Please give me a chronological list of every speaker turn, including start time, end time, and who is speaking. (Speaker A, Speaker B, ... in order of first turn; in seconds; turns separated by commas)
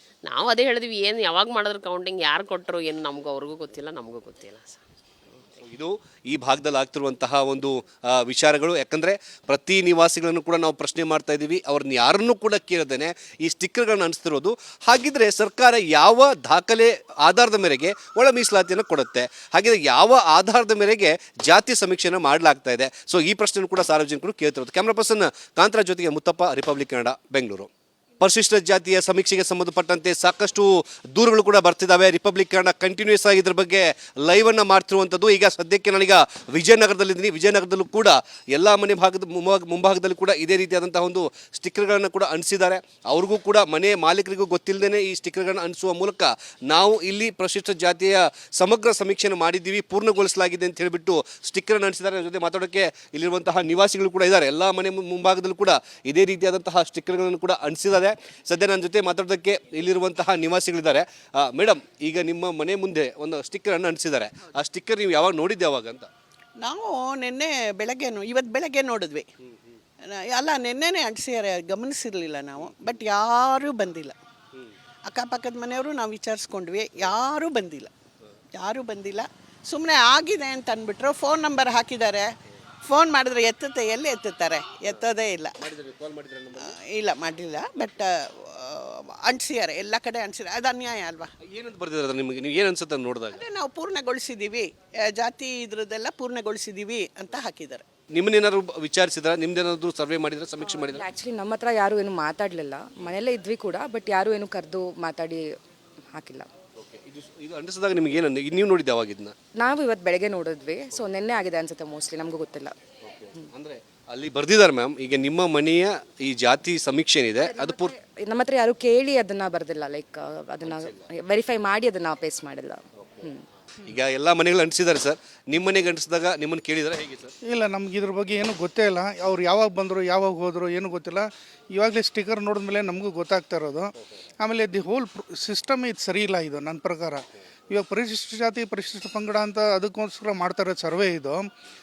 Speaker A: 0.2-5.6, Speaker B: 5.6-66.1, Speaker C: 66.6-69.3, Speaker B: 69.4-69.8, Speaker C: 70.0-74.2, Speaker B: 72.5-73.1, Speaker C: 75.0-77.9, Speaker C: 78.5-82.3, Speaker C: 82.8-85.5, Speaker B: 84.9-86.8, Speaker C: 86.5-91.3, Speaker B: 91.4-93.5, Speaker C: 93.3-97.8, Speaker B: 98.1-101.1, Speaker D: 100.6-105.4, Speaker D: 106.2-106.5, Speaker B: 106.8-109.3, Speaker D: 109.7-112.7, Speaker B: 110.9-111.2, Speaker B: 113.0-118.0, Speaker E: 117.4-117.8, Speaker D: 118.1-122.8, Speaker B: 120.6-121.1, Speaker B: 122.9-127.3, Speaker E: 127.4-141.4